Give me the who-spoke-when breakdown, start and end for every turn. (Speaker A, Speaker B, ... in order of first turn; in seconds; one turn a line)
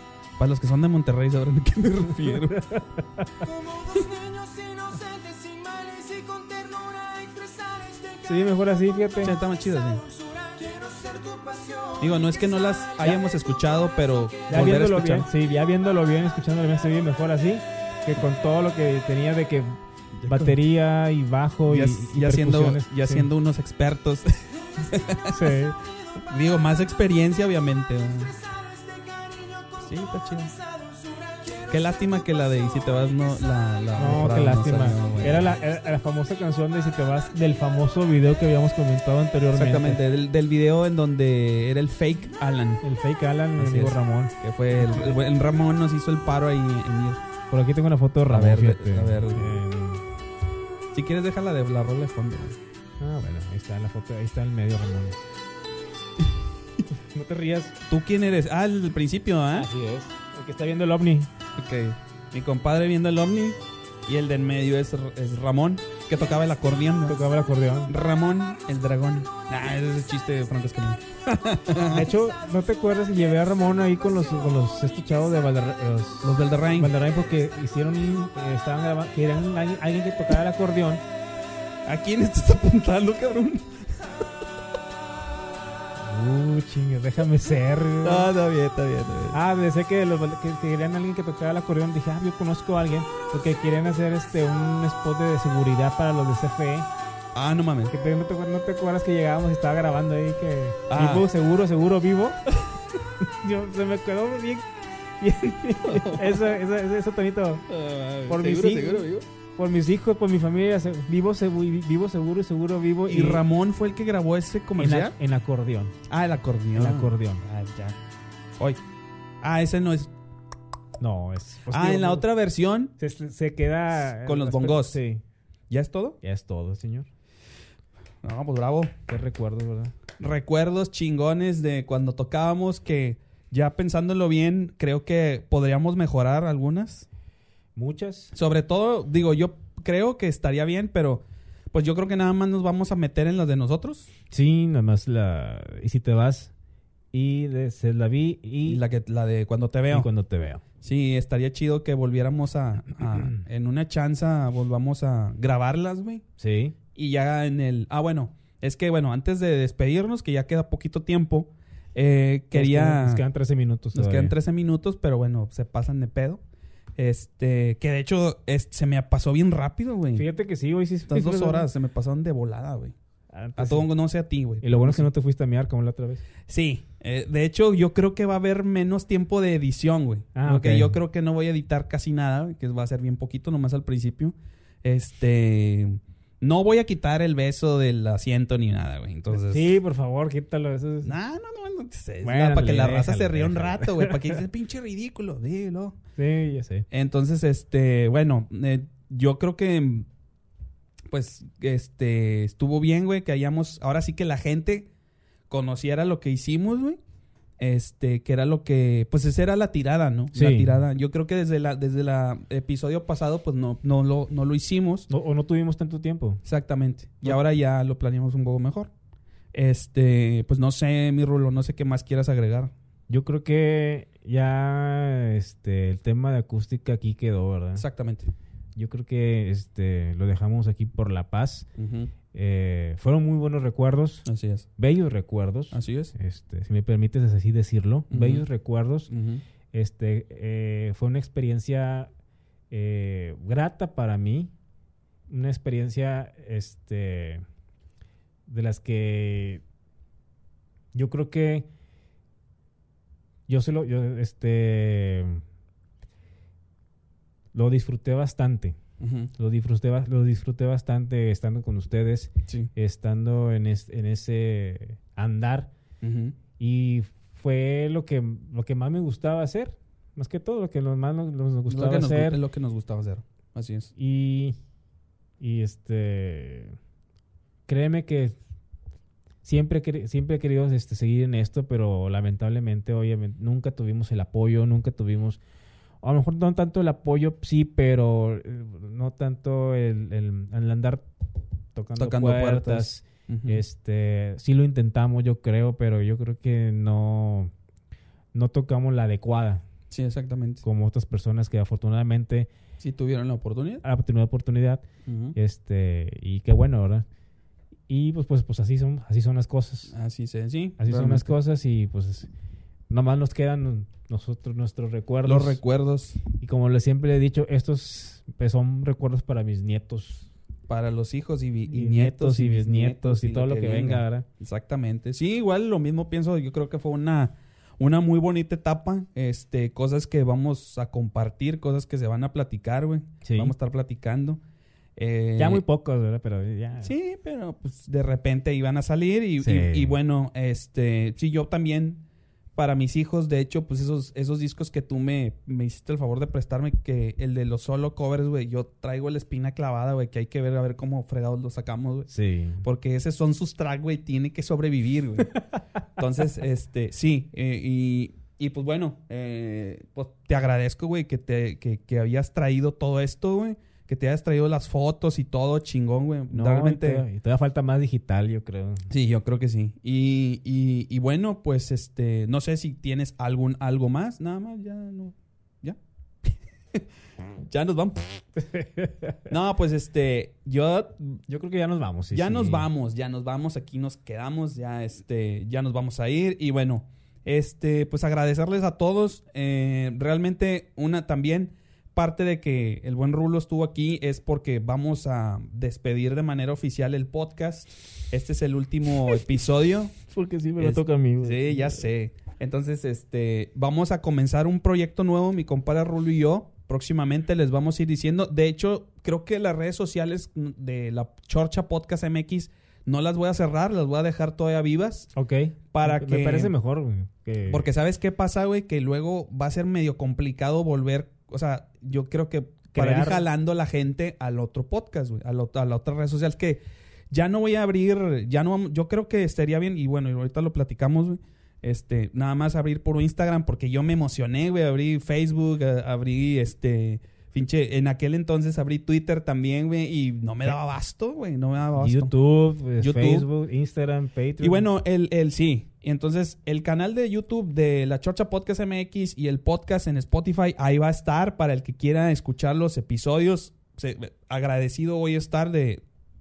Speaker A: 0.4-2.6
Speaker B: 2.2-3.3
Speaker C: 3.4-8.3
Speaker B: 8.2-9.4
Speaker A: 9.2-10.0
Speaker C: 9.9-12.2
Speaker A: 12.0-15.3
Speaker B: 14.5-23.3
Speaker A: 20.1-20.6
Speaker A: 21.7-25.4
Speaker B: 25.3-25.8
Speaker A: 26.2-28.4
Speaker C: 28.8-29.8
Speaker A: 29.8-30.5
Speaker C: 30.9-31.8
Speaker A: 31.7-35.5
Speaker B: 34.0-40.0
Speaker A: 39.5-42.8
Speaker B: 42.8-45.2
Speaker A: 43.6-47.2
Speaker B: 47.5-50.0
Speaker A: 48.3-49.5
Speaker A: 50.9-52.6
Speaker B: 53.0-55.2
Speaker B: 57.1-57.7
Speaker A: 57.9-59.7
Speaker B: 59.5-61.3
Speaker A: 61.6-67.2
Speaker B: 67.1-67.9
Speaker A: 67.9-72.1
Speaker B: 71.9-81.0
Speaker A: 76.2-76.9
Speaker A: 81.9-83.9
Speaker B: 86.0-88.3
Speaker A: 88.0-89.4
Speaker B: 89.3-96.9
Speaker A: 97.3-97.9
Speaker B: 97.9-102.4
Speaker A: 100.9-101.3
Speaker B: 103.4-104.7
Speaker B: 105.2-107.7
Speaker A: 105.8-106.4
Speaker A: 107.7-109.3
Speaker B: 108.3-113.4
Speaker A: 113.1-115.2
Speaker B: 114.8-116.0
Speaker A: 116.1-118.0
Speaker B: 116.8-117.4
Speaker A: 119.4-120.1
Speaker B: 121.0-122.3
Speaker A: 121.7-123.0
Speaker B: 123.0-125.2
Speaker A: 124.0-125.0
Speaker A: 125.7-126.2
Speaker B: 126.2-127.1
Speaker A: 128.2-128.9
Speaker B: 129.1-129.9
Speaker A: 130.2-137.1
Speaker B: 137.8-138.3
Speaker A: 138.3-144.1
Speaker B: 144.3-146.5
Speaker B: 147.1-148.8
Speaker A: 148.7-150.1
Speaker B: 149.9-150.6
Speaker A: 150.8-156.2
Speaker B: 156.4-156.8
Speaker A: 156.9-163.2
Speaker B: 162.5-164.3
Speaker A: 163.9-166.4
Speaker A: 167.0-170.3
Speaker B: 170.1-171.7
Speaker A: 171.1-173.0
Speaker B: 173.3-173.9
Speaker A: 173.6-175.1
Speaker B: 174.6-176.2
Speaker A: 176.5-189.8
Speaker B: 180.3-181.0
Speaker B: 189.3-191.1
Speaker A: 191.0-196.0
Speaker B: 192.2-194.4
Speaker B: 196.2-196.9
Speaker A: 196.9-200.1
Speaker A: 201.1-204.9
Speaker A: 205.5-207.0
Speaker A: 207.6-215.1
Speaker B: 210.3-210.7
Speaker B: 215.1-216.4
Speaker A: 216.4-218.9
Speaker A: 219.5-222.7
Speaker B: 223.1-227.8
Speaker A: 227.8-228.3
Speaker B: 228.8-231.7
Speaker A: 231.8-232.1
Speaker B: 232.3-234.3
Speaker A: 234.3-234.7
Speaker B: 234.8-239.1
Speaker A: 235.7-236.2
Speaker A: 238.1-238.5
Speaker A: 239.1-239.4
Speaker B: 239.7-242.1
Speaker B: 242.7-244.5
Speaker B: 245.3-247.4
Speaker B: 248.5-249.6
Speaker B: 250.9-251.7
Speaker B: 253.5-255.4
Speaker B: 257.5-258.8
Speaker A: 259.0-259.3
Speaker B: 259.4-265.7
Speaker A: 266.0-266.4
Speaker B: 266.6-272.4
Speaker A: 271.7-273.9
Speaker B: 274.0-274.6
Speaker B: 275.4-276.8
Speaker B: 277.7-278.4
Speaker B: 279.4-285.4
Speaker B: 286.0-291.1
Speaker B: 291.8-297.5
Speaker A: 292.0-293.6
Speaker B: 298.3-299.6
Speaker A: 299.9-300.6
Speaker B: 300.6-302.5
Speaker A: 302.8-303.8
Speaker B: 303.8-304.8
Speaker A: 305.1-305.4
Speaker B: 305.4-307.1
Speaker B: 307.9-309.9
Speaker A: 309.9-311.3
Speaker B: 310.8-312.3
Speaker B: 312.9-315.6
Speaker A: 315.2-316.2
Speaker B: 316.3-320.3
Speaker A: 320.7-334.4
Speaker B: 321.7-324.3
Speaker B: 333.2-333.5
Speaker A: 335.0-335.6
Speaker B: 335.4-336.9
Speaker A: 336.8-342.0
Speaker B: 339.4-340.0
Speaker A: 342.6-352.1
Speaker B: 352.1-352.6
Speaker A: 352.6-355.4
Speaker A: 356.0-367.1
Speaker B: 366.3-368.9
Speaker A: 368.9-376.8
Speaker A: 377.5-378.2
Speaker B: 378.4-379.2
Speaker A: 379.3-381.2
Speaker B: 381.3-382.7
Speaker A: 382.1-400.0
Speaker B: 400.1-401.9
Speaker A: 400.6-415.1
Speaker B: 415.1-417.7
Speaker A: 415.7-416.5
Speaker A: 417.5-442.1
Speaker B: 422.8-423.2
Speaker B: 441.8-444.7
Speaker A: 442.8-443.3
Speaker A: 444.4-455.8